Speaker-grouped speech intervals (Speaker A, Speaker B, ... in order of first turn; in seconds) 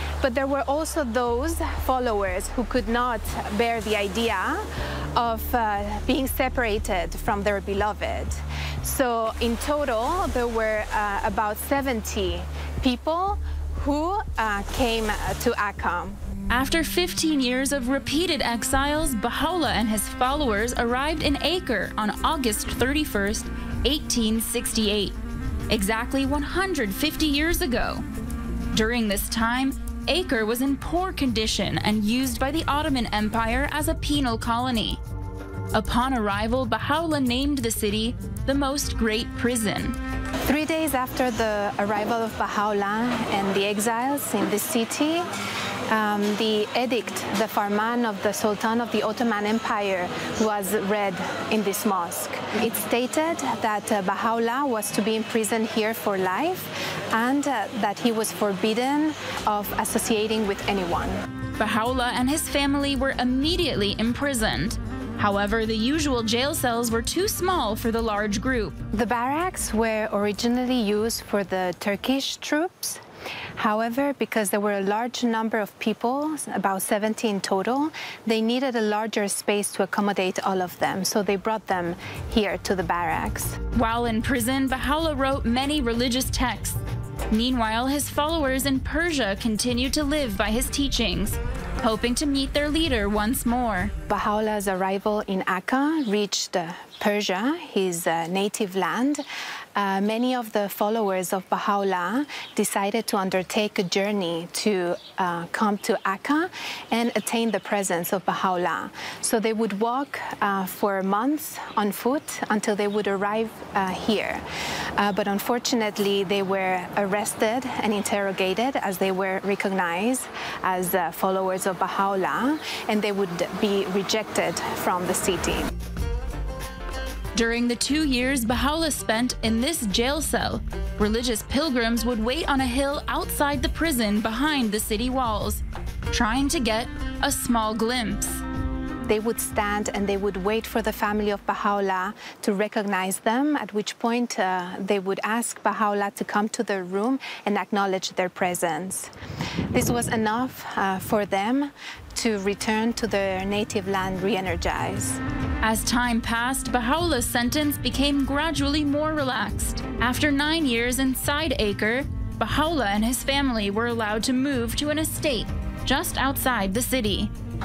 Speaker A: 0.2-16.2, 40.5-45.3, 45.9-61.2, 68.9-73.0, 73.6-83.6, 94.1-99.2, 99.8-114.4, 115.0-125.7, 139.1-149.1, 149.7-155.2
Speaker B: 16.5-25.2, 25.7-28.0, 28.7-35.0, 35.7-40.0, 61.6-68.8, 83.7-93.9, 127.3-138.4, 155.6-167.3